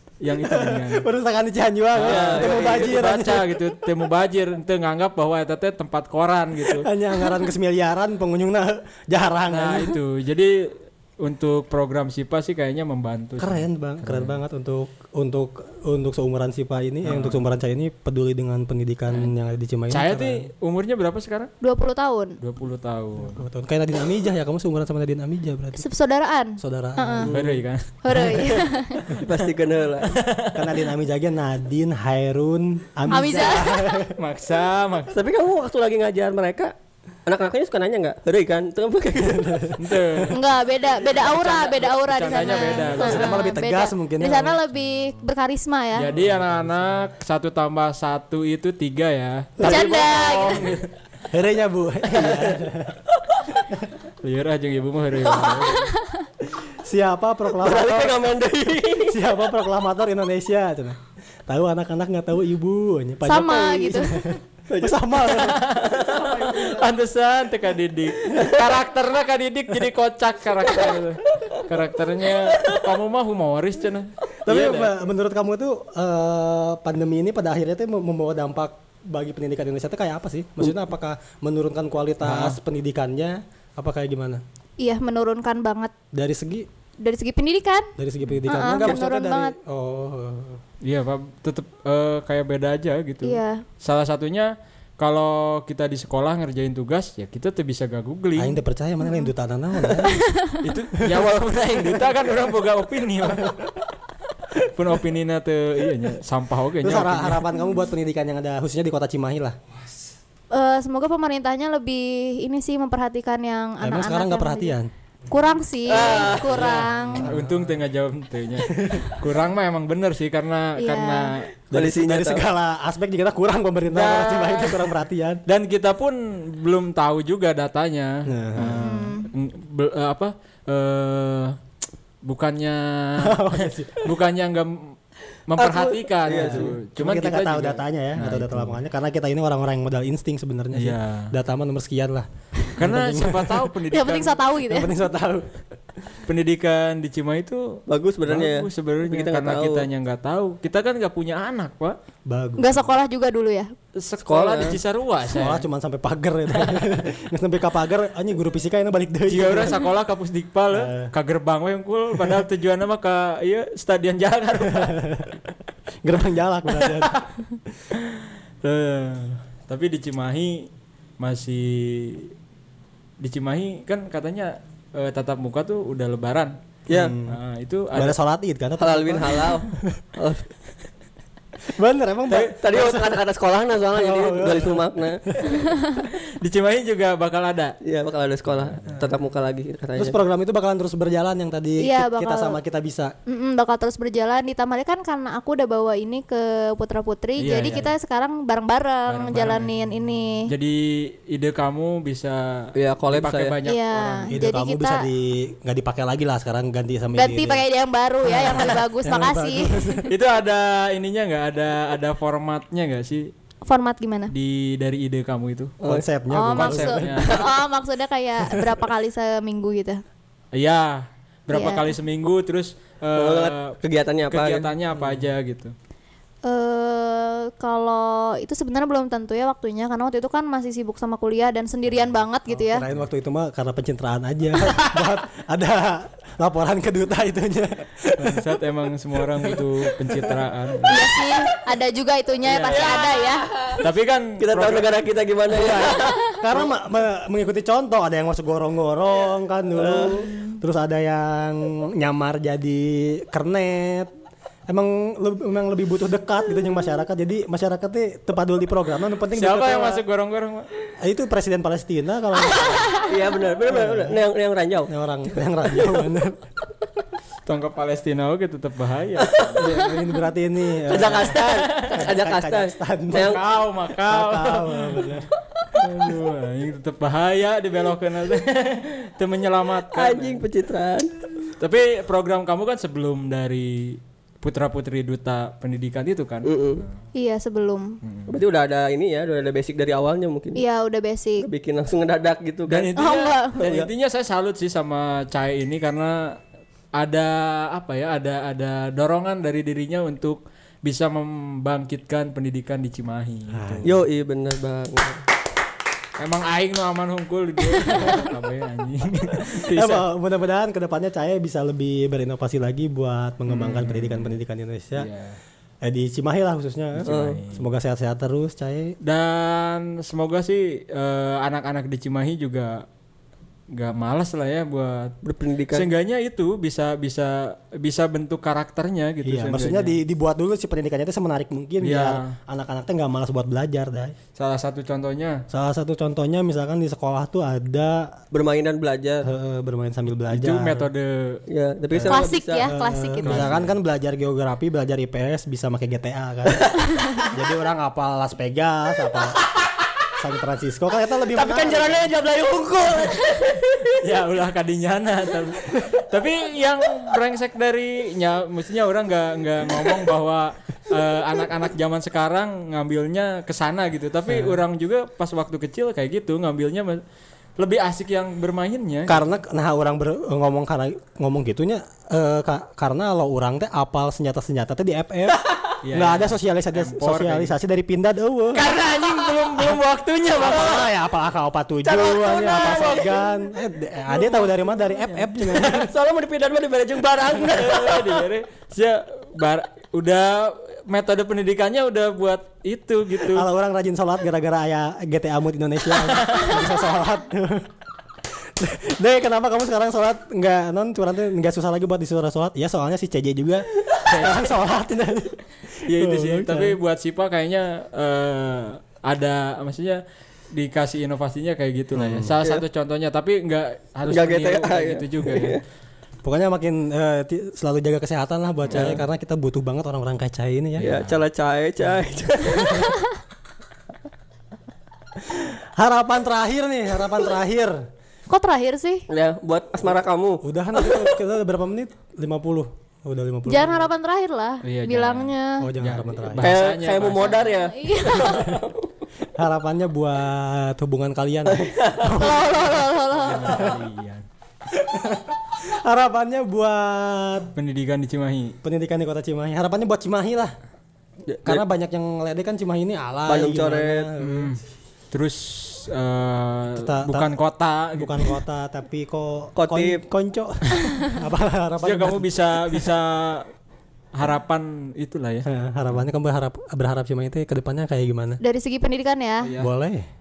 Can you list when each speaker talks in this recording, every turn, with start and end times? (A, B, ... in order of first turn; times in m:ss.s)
0:00.2-0:01.1 A
0:00.3-0:03.5 B
0:01.9-0:06.9 A
0:02.0-0:03.1 C
0:06.6-0:10.0 B
0:09.5-0:14.4 A
0:13.4-0:20.5 B
0:17.0-0:17.4 A
0:19.9-0:21.5 A
0:21.6-0:22.4 D
0:22.4-0:23.4 A
0:23.2-0:25.8 B
0:25.8-0:27.3 D
0:26.6-0:27.3 B
0:27.2-0:27.6 C
0:27.3-0:28.3 A
0:28.0-0:29.2 D
0:29.1-0:30.2 C
0:30.1-0:30.8 A
0:30.5-0:34.2 B
0:33.1-0:34.0 D
0:34.1-0:35.1 A
0:35.1-0:36.8 C
0:37.3-0:39.8 C
0:39.3-0:40.3 B
0:39.8-0:40.5 A
0:40.3-0:46.1 D
0:41.0-0:43.4 A
0:42.9-0:44.6 B
0:46.0-0:50.9 A
0:46.2-0:46.5 B
0:49.6-0:50.6 B
0:49.6-0:50.7 D
0:51.3-0:53.0 B
0:52.1-0:52.6 C
0:54.2-0:55.9 A
0:55.7-0:56.2 D
0:56.8-0:58.4 B
0:57.6-0:59.2 C
0:59.1-1:05.6 B
1:03.2-1:04.4 D
1:04.7-1:06.8 C
1:05.3-1:15.0 A
1:12.4-1:12.8 C
1:14.4-1:24.4 B
1:22.2-1:22.6 A
1:24.8-1:25.9 D
1:26.1-1:26.7 B
1:27.0-1:27.9 D
1:28.0-1:30.6 B
1:28.2-1:28.8 A
1:28.4-1:29.5 D
1:30.8-1:38.6 A
1:33.2-1:33.6 D
1:38.4-1:40.2 B
1:40.0-1:40.6 D
1:40.6-1:43.5 A
1:44.5-1:47.5 A
1:46.8-1:49.6 B
1:50.5-1:54.8 D
1:53.8-1:54.9 B
1:55.3-1:57.4 D
1:55.9-1:56.9 C
1:55.9-2:01.5 A
1:57.2-1:57.7 B
1:58.7-1:59.1 B
2:00.8-2:01.3 D
2:01.7-2:05.4 B
2:01.7-2:02.5 C
2:03.9-2:04.9 A
2:05.5-2:11.6 A
2:08.3-2:08.9 B
2:08.6-2:09.3 D
2:12.2-2:18.8 A
2:13.2-2:14.1 B
2:15.6-2:16.8 C
2:16.3-2:23.7 B
2:20.7-2:21.3 A
2:22.8-2:24.4 A
2:23.9-2:24.9 D
2:24.7-2:25.6 B
2:26.3-2:32.0 A
2:27.9-2:29.9 C
2:32.3-2:32.8 B
2:32.6-2:33.8 D
2:34.0-2:35.7 A
2:34.2-2:34.8 C
2:35.3-2:39.9 B
2:36.5-2:36.8 A
2:39.3-2:45.0 A
2:40.7-2:41.1 B
2:44.6-2:45.4 B
2:46.0-2:47.2 B
2:46.7-2:47.2 A
2:47.9-2:52.3 A
2:53.2-2:56.6 A
2:56.9-2:57.4 B
2:57.3-2:58.2 A
2:57.9-3:00.0 B
2:58.8-3:00.4 C
3:01.7-3:03.2 B
3:02.3-3:05.2 C
3:03.9-3:05.6 B
3:05.5-3:06.0 D
3:06.0-3:07.8 A
3:07.8-3:10.2 C
3:08.5-3:08.9 A
3:10.0-3:13.1 B
3:11.8-3:12.6 D
3:13.3-3:20.5 D
3:17.4-3:17.9 A
3:19.1-3:19.7 A
3:20.5-3:24.3 A
3:22.8-3:23.6 C
3:23.6-3:25.1 D
3:24.3-3:27.6 B
3:27.2-3:30.1 D
3:28.3-3:30.1 B
3:30.1-3:33.3 A
3:33.6-3:34.3 D
3:34.3-3:35.8 A
3:35.8-3:37.2 B
3:36.3-3:40.0 D
3:36.5-3:37.5 A
3:40.5-3:45.7 A
3:41.5-3:41.9 D
3:43.1-3:44.7 C
3:46.4-3:52.8 D
3:52.5-3:58.6 B
3:58.2-4:01.1 A
4:00.9-4:03.5 D
4:02.5-4:03.1 A
4:02.7-4:03.8 C
4:03.7-4:05.0 A
4:04.4-4:06.7 C
4:05.5-4:14.1 B
4:09.8-4:10.3 C
4:14.7-4:20.0 B
4:19.3-4:20.7 A
4:21.0-4:23.0 B
4:22.6-4:23.1 D
4:23.0-4:24.9 C
4:23.7-4:24.2 B
4:24.9-4:26.5 B
4:25.7-4:26.1 C
4:27.5-4:29.7 A
4:29.2-4:29.6 C
4:29.6-4:33.4 B
4:30.9-4:33.4 C
4:31.2-4:32.0 A
4:33.1-4:35.2 A
4:34.0-4:35.3 B
4:35.8-4:40.4 A
4:39.9-4:41.1 C
4:41.6-4:46.9 A
4:46.4-4:46.8 C
4:47.1-4:48.0 D
4:48.0-4:48.4 A
4:48.3-4:50.6 C
4:50.6-4:51.5 D
4:51.4-4:52.9 C
4:52.7-4:56.4 A
4:53.0-4:53.6 D
4:53.6-4:53.9 C
4:57.0-5:03.9 A
5:03.5-5:04.0 B
5:03.8-5:05.2 C
5:06.2-5:10.1 A
5:09.6-5:15.1 B
5:13.5-5:14.3 A
5:14.9-5:15.4 A
5:15.8-5:19.0 B
5:17.0-5:17.6 A
5:17.0-5:17.4 C
5:19.0-5:22.9 A
5:23.7-5:25.1 A
5:25.2-5:25.9 C
5:25.7-5:30.0 A
5:29.2-5:34.2 B
5:31.8-5:32.4 A
5:34.4-5:35.4 A
5:35.5-5:38.2 B
5:38.3-5:39.3 C
5:39.2-5:40.9 B
5:40.3-5:41.4 A
5:41.5-5:42.7 C
5:41.9-5:49.4 B
5:42.1-5:43.5 D
5:43.2-5:43.7 A
5:46.6-5:47.3 C
5:50.2-5:52.1 B
5:51.3-5:53.9 C
5:53.8-6:07.0 A
6:04.3-6:04.6 B
6:07.6-6:09.3 A
6:09.1-6:18.8 B
6:15.8-6:17.6 A
6:18.5-6:20.9 A
6:20.4-6:25.9 B
6:20.4-6:20.8 C
6:21.8-6:23.3 C
6:24.1-6:24.5 C
6:25.4-6:28.3 C
6:27.2-6:33.5 A
6:33.3-6:37.7 B
6:36.1-6:36.7 A
6:38.6-6:46.8 B
6:44.0-6:44.5 A
6:45.9-6:50.0 A
6:50.5-6:55.6 A
6:52.0-6:52.4 B
6:54.1-6:55.6 C
6:56.2-7:00.9 B
6:58.7-6:59.0 A
6:58.7-6:59.0 C
7:00.8-7:01.2 A
7:00.8-7:02.9 C
7:02.5-7:02.8 B
7:05.2-7:07.8 B
7:08.3-7:09.1 D
7:09.1-7:11.1 C
7:10.4-7:13.8 B
7:13.5-7:15.7 D
7:14.6-7:17.6 A
7:15.6-7:16.6 B
7:16.4-7:18.9 C
7:17.2-7:18.6 D
7:19.4-7:23.8 B
7:21.5-7:22.2 C
7:22.1-7:23.7 D
7:23.1-7:24.3 A
7:24.7-7:27.5 B
7:27.6-7:28.6 A
7:28.6-7:30.5 B
7:31.3-7:31.6 C
7:31.4-7:34.6 B
7:33.3-7:34.1 C
7:34.2-7:38.4 A
7:36.7-7:37.3 B
7:37.9-7:42.9 B
7:39.6-7:40.0 C
7:41.8-7:43.5 A
7:44.1-7:45.5 A
7:45.4-7:48.4 B
7:48.4-7:49.5 D
7:49.4-7:49.7 A
7:49.6-7:50.1 B